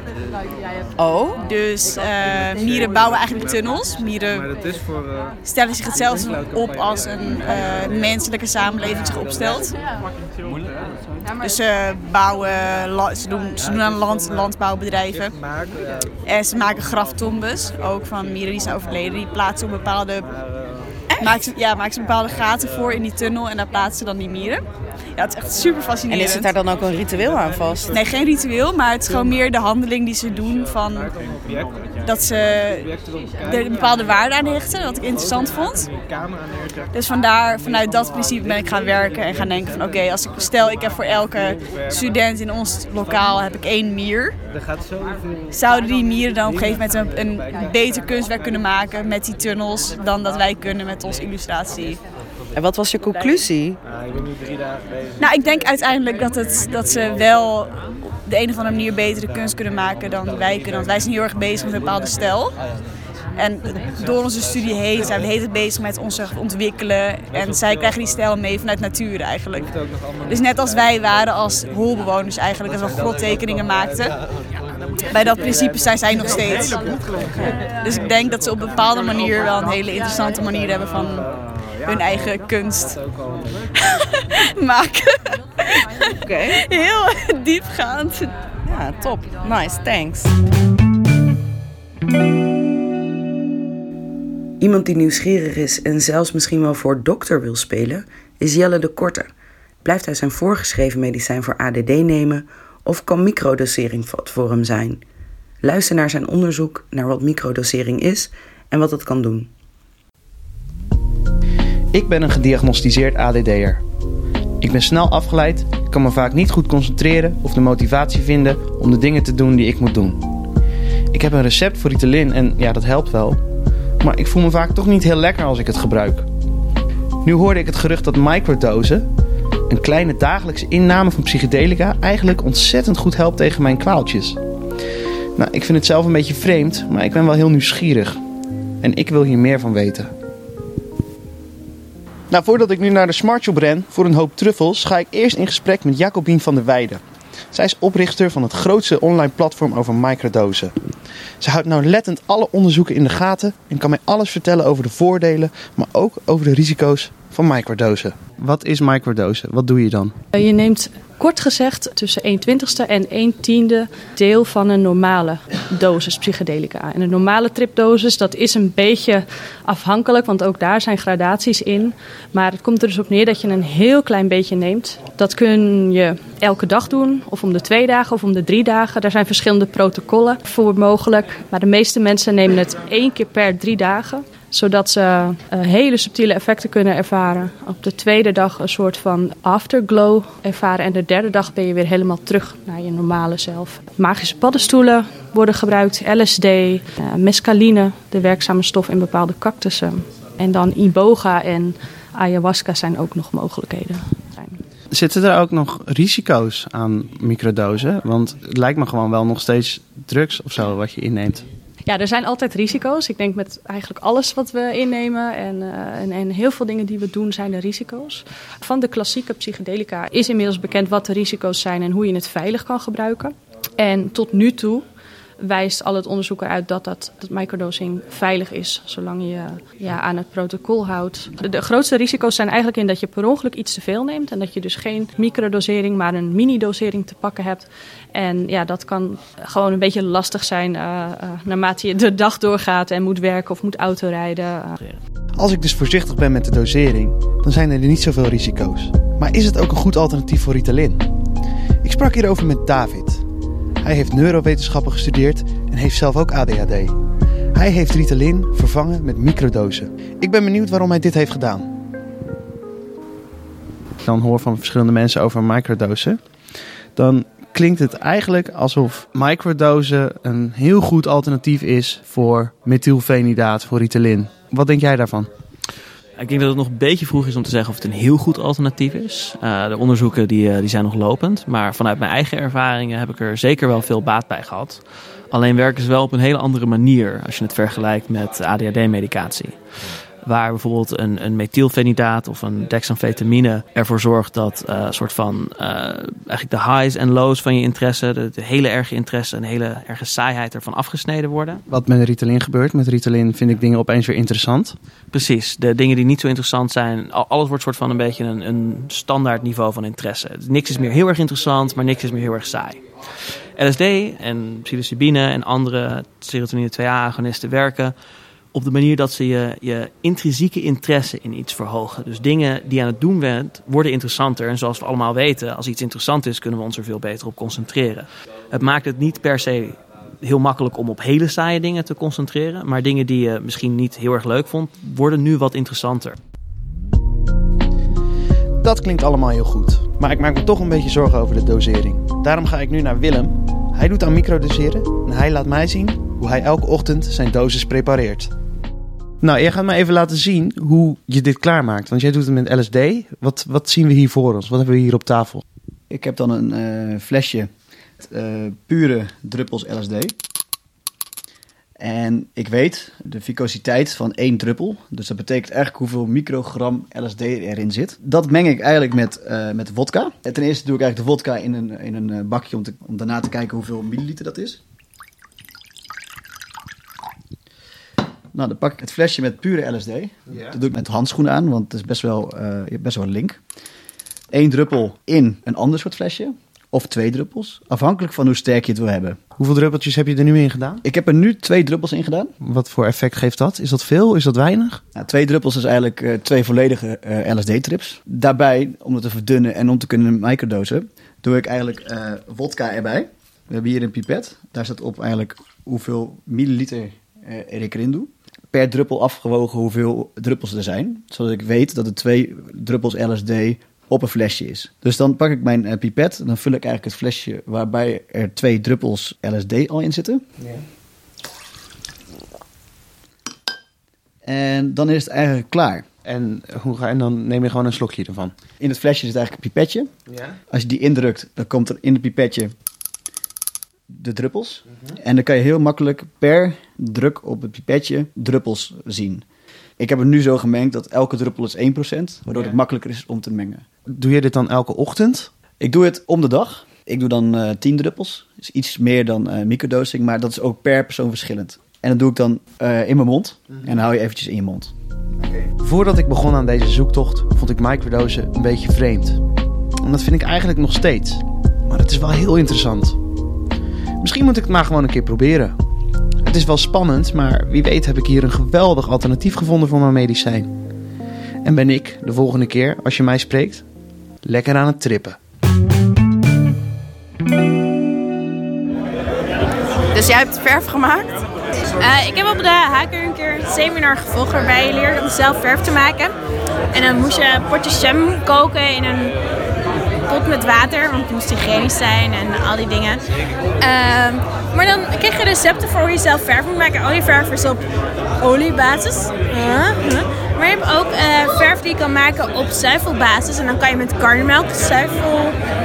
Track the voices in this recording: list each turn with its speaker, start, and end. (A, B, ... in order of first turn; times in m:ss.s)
0:01.0-0:01.3 A
0:01.4-0:04.4 B
0:05.4-0:09.7 B
0:11.4-0:15.3 B
0:16.2-0:20.3 B
0:21.2-0:24.6 B
0:25.2-0:26.5 B
0:26.1-0:27.9 A
0:27.9-0:31.1 B
0:32.0-0:32.9 B
0:33.4-0:35.9 B
0:36.9-0:44.4 B
0:45.5-0:52.0 B
0:52.6-0:53.8 A
0:55.2-0:57.7 B
0:58.3-1:02.5 B
1:03.4-1:09.7 B
1:10.3-1:14.1 B
1:15.1-1:16.9 B
1:17.8-1:21.3 B
1:21.9-1:23.0 B
1:24.6-1:25.4 B
1:26.5-1:28.3 B
1:28.7-1:30.3 A
1:34.6-1:39.3 C
1:39.8-1:45.0 C
1:45.6-1:49.5 C
1:51.9-1:53.8 D
1:54.6-2:00.2 D
2:01.1-2:03.4 D
2:04.0-2:06.3 D
2:07.2-2:09.0 D
2:09.7-2:14.4 D
2:15.4-2:18.2 D
2:18.8-2:20.1 D
2:22.3-2:27.0 D
2:27.5-2:30.7 D
2:31.4-2:40.1 D
2:40.3-3:24.6 E
3:24.9-3:31.4 D
3:31.8-3:44.8 E
3:45.4-4:04.8 E
4:05.4-4:11.0 D
4:11.8-4:13.2 D
4:13.8-4:16.9 D
4:17.6-4:21.7 D
4:24.0-4:26.2 D
4:27.0-4:35.3 D
4:36.2-4:49.6 F
4:50.2-5:01.6 F
5:01.7-5:04.8 D
5:05.1-5:12.8 F
5:13.6-5:17.9 F
5:18.5-5:36.2 F
5:38.6-5:48.3 D
5:49.2-5:55.4 D
5:55.9-5:57.5 G
5:58.0-6:00.1 G
6:01.8-6:14.6 G
6:18.3-6:23.4 G
6:24.3-6:29.2 G
6:29.4-6:30.8 D
6:30.8-6:32.3 G
6:32.4-6:34.8 D
6:35.0-7:00.2 G
7:04.2-7:05.8 G
7:06.0-7:08.4 D
7:08.6-7:09.9 G
7:10.5-7:12.5 G
7:13.9-7:19.2 G
7:19.8-7:23.6 G
7:24.0-7:25.3 D
7:25.6-7:34.7 G
7:35.6-7:39.2 D
7:39.8-7:43.0 D
7:44.0-7:45.6 D
7:46.2-7:50.5 D
7:51.4-7:53.6 D
7:54.2-7:55.2 D
8:00.0-8:01.1 A
8:01.8-8:06.1 H
8:06.7-8:09.1 H
8:10.1-8:13.0 H
8:13.6-8:17.6 H
8:18.2-8:25.4 H